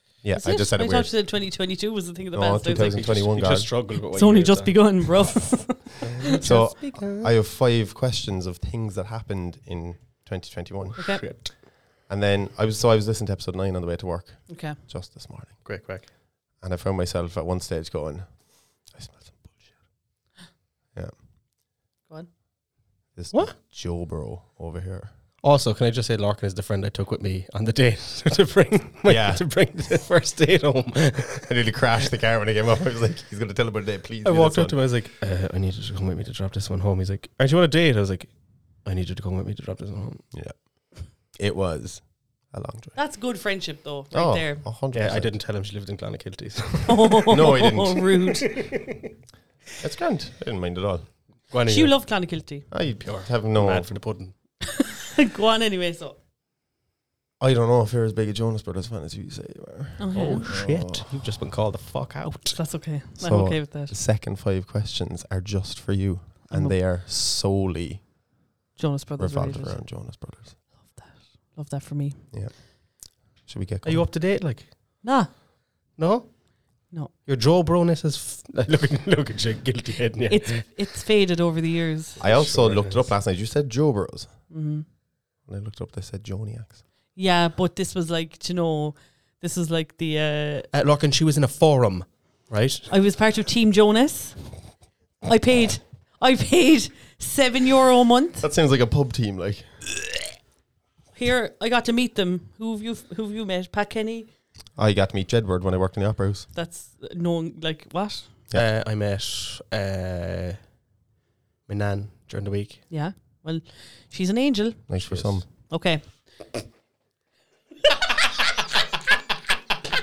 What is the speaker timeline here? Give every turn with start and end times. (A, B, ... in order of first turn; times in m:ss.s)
0:00.2-0:01.2 A
0:00.3-0:03.1 B
0:02.3-0:03.7 A
0:02.8-0:07.3 C
0:04.1-0:06.0 B
0:06.3-0:15.8 A
0:11.0-0:11.6 C
0:11.0-0:11.2 B
0:14.5-0:14.8 B
0:15.6-0:16.1 C
0:16.6-0:19.8 A
0:20.9-0:21.2 A
0:23.1-0:25.1 A
0:25.4-0:31.5 C
0:29.0-0:29.5 A
0:31.4-0:34.8 A
0:34.2-0:40.2 C
0:40.3-0:43.0 A
0:43.0-0:44.6 B
0:44.1-0:45.4 A
0:44.9-0:47.2 C
0:46.9-0:48.6 B
0:47.3-0:48.1 A
0:49.8-0:51.2 A
0:51.5-0:52.0 C
0:51.7-0:52.7 B
0:52.7-0:54.1 A
0:53.0-0:54.3 C
0:54.8-0:56.2 B
0:57.4-1:01.2 A
1:00.0-1:00.5 B
1:00.1-1:02.6 C
1:02.6-1:04.0 B
1:03.2-1:08.1 A
1:06.5-1:06.8 B
1:08.8-1:09.8 B
1:09.2-1:10.6 A
1:10.8-1:12.2 B
1:12.3-1:14.1 A
1:13.8-1:15.0 C
1:15.0-1:15.3 B
1:16.0-1:20.7 C
1:20.3-1:22.2 B
1:22.2-1:23.1 C
1:22.2-1:24.5 A
1:24.5-1:24.9 B
1:25.4-1:26.8 A
1:27.1-1:30.7 B
1:30.7-1:32.9 C
1:32.9-1:38.5 B
1:38.4-1:39.9 A
1:41.1-1:44.3 B
1:44.8-1:46.5 A
1:46.5-1:48.4 B
1:48.5-1:50.7 C
1:51.7-1:52.9 C
1:52.9-1:56.3 B
1:54.9-1:55.5 A
1:55.0-1:55.4 C